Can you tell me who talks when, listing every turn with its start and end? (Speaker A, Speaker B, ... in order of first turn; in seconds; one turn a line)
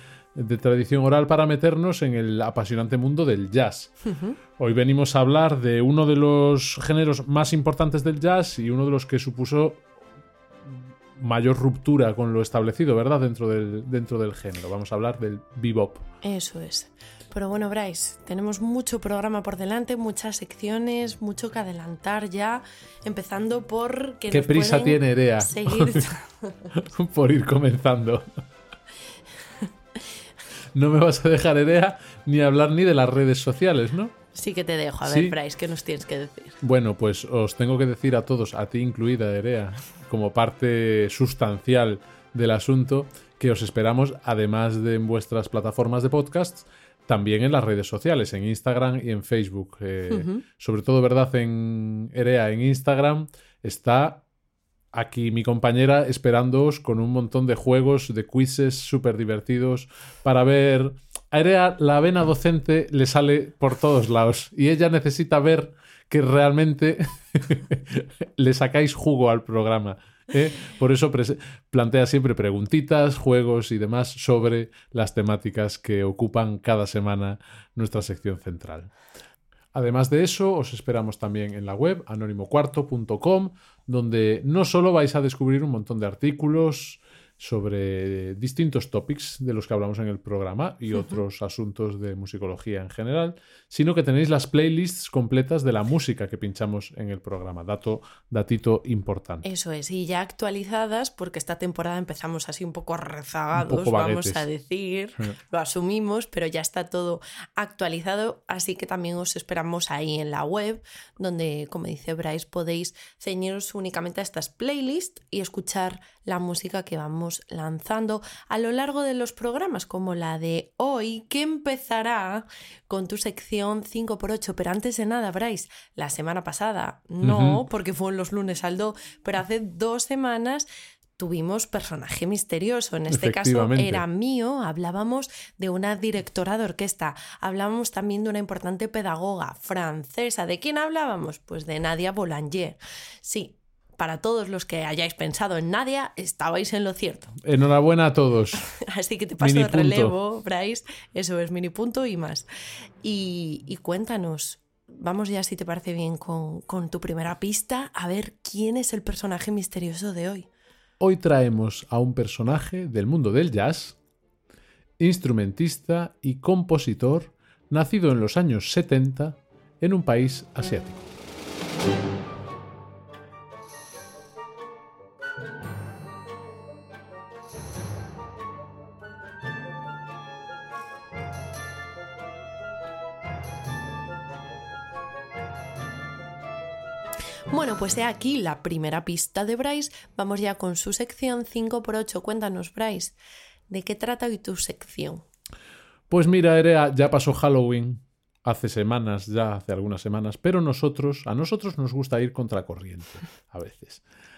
Speaker A: 0.3-3.9
Speaker B: 4.0-4.4
Speaker A: 4.6-9.8
Speaker A: 10.6-16.1
Speaker B: 16.2-26.6
Speaker A: 24.3-26.1
Speaker A: 26.7-28.3
Speaker A: 30.7-34.1
Speaker B: 34.3-36.6
Speaker A: 35.0-35.4
Speaker A: 36.6-54.2
Speaker B: 50.1-50.4
Speaker A: 54.9-78.9
Speaker A: 79.7-99.5
Speaker B: 99.4-130.7
Speaker A: 103.5-104.5
Speaker A: 127.2-127.6
Speaker B: 131.2-147.4
Speaker A: 133.1-134.0
Speaker A: 147.4-148.6
Speaker B: 148.6-152.4
Speaker A: 149.4-150.1
Speaker B: 153.0-160.5
Speaker A: 161.0-164.0
Speaker A: 165.0-171.1
Speaker B: 187.5-193.1
Speaker B: 193.7-195.2
Speaker A: 196.1-204.0